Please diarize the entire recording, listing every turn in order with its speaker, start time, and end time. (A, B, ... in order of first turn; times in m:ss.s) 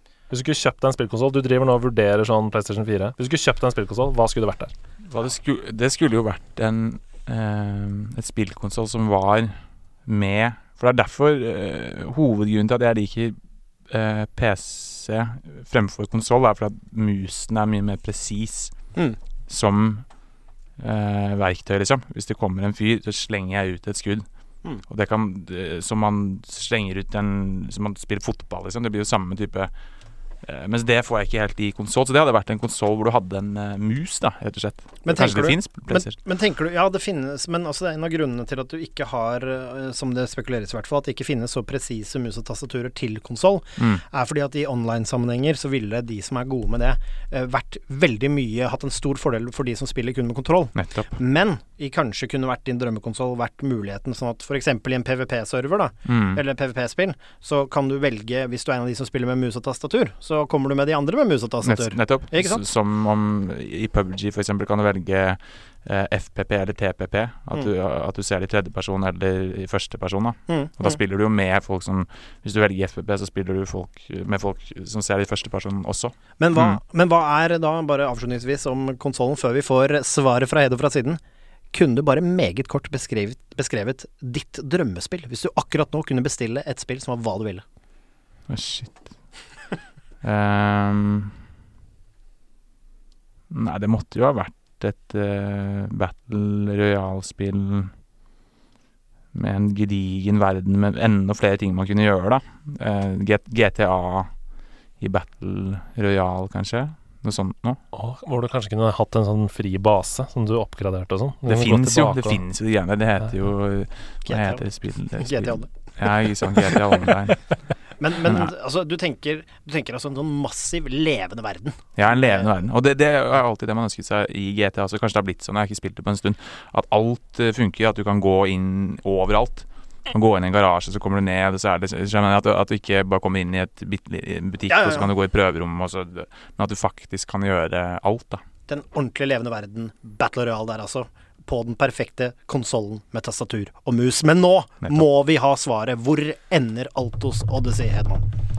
0:00.3-0:04.7 A
0:05.0-0:13.4 B
0:13.9-0:18.7 B
0:19.5-0:20.1 B
0:20.8-0:24.2 B
0:24.9-0:29.7 B
0:30.4-0:36.2 B
0:35.0-1:02.6 C
0:43.8-0:44.0 B
0:50.8-0:51.1 B
0:56.0-0:56.4 B
1:01.6-1:16.8 B
1:10.5-1:11.0 C
1:16.4-1:21.2 C
1:21.7-1:27.6 C
1:28.5-1:29.2 B
1:30.2-1:31.4 B
1:33.5-1:37.9 B
1:39.3-1:44.3 B
1:45.0-1:47.8 B
1:47.9-1:52.4 A
1:51.4-1:57.4 B
1:54.2-1:54.6 C
1:55.2-1:55.7 C
1:58.0-2:02.5 C
1:58.2-1:58.5 B
2:02.0-2:18.4 B
2:14.7-2:15.1 C
2:18.7-2:28.2 C